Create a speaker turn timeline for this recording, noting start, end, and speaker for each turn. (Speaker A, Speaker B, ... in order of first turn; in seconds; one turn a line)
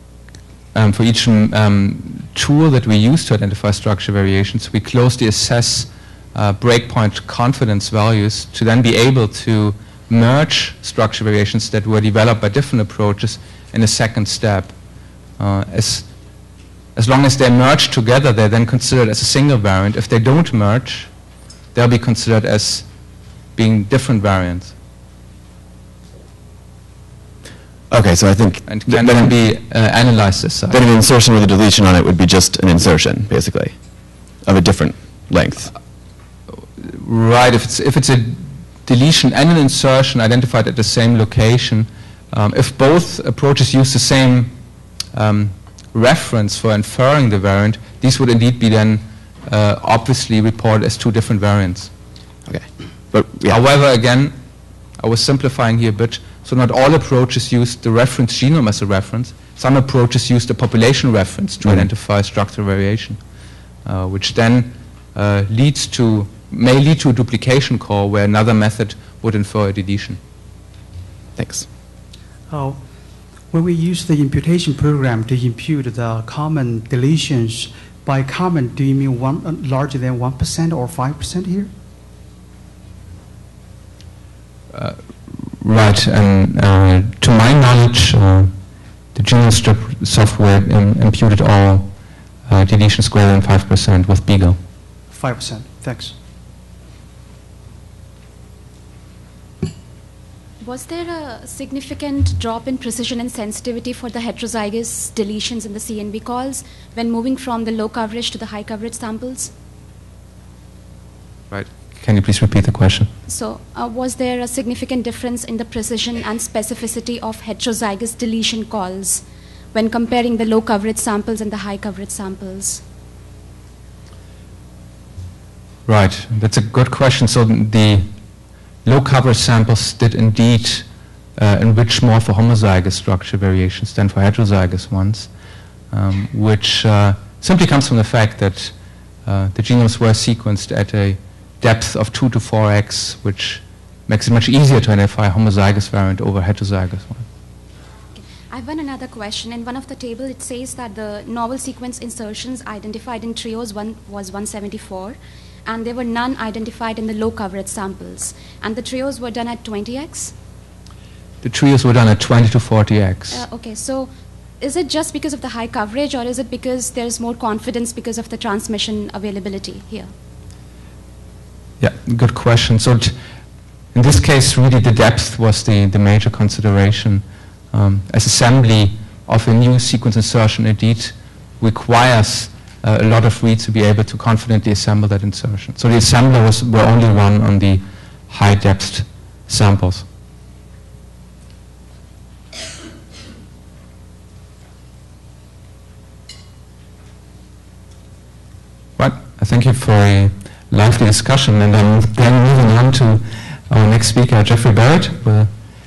Speaker A: 0.7-14.7
Speaker A: 15.4-16.1
Speaker A: 17.0-21.1
Speaker A: 21.7-22.9
Speaker A: 23.6-24.7
Speaker B: 27.9-29.3
Speaker A: 28.7-30.8
Speaker B: 30.7-33.8
Speaker B: 34.4-35.7
Speaker A: 36.8-44.6
Speaker A: 45.1-51.9
Speaker B: 52.5-53.6
Speaker A: 53.5-54.4
Speaker A: 55.0-63.2
Speaker A: 63.9-70.2
Speaker B: 71.4-71.7
Speaker C: 72.5-72.8
Speaker C: 73.5-81.7
Speaker A: 84.7-88.5
Speaker A: 89.2-91.9
Speaker A: 92.5-94.6
Speaker C: 95.1-96.2
Speaker D: 100.6-109.5
Speaker A: 111.5-113.1
Speaker D: 113.3-122.8
Speaker A: 125.9-128.1
Speaker A: 128.8-130.9
Speaker A: 131.4-135.3
Speaker A: 135.9-138.7
Speaker A: 139.3-147.3
Speaker D: 148.2-160.3
Speaker A: 161.4-163.4
Speaker D: 163.3-170.1
Speaker A: 171.8-173.2
Speaker A: 173.9-190.1
Speaker A: 199.0-205.5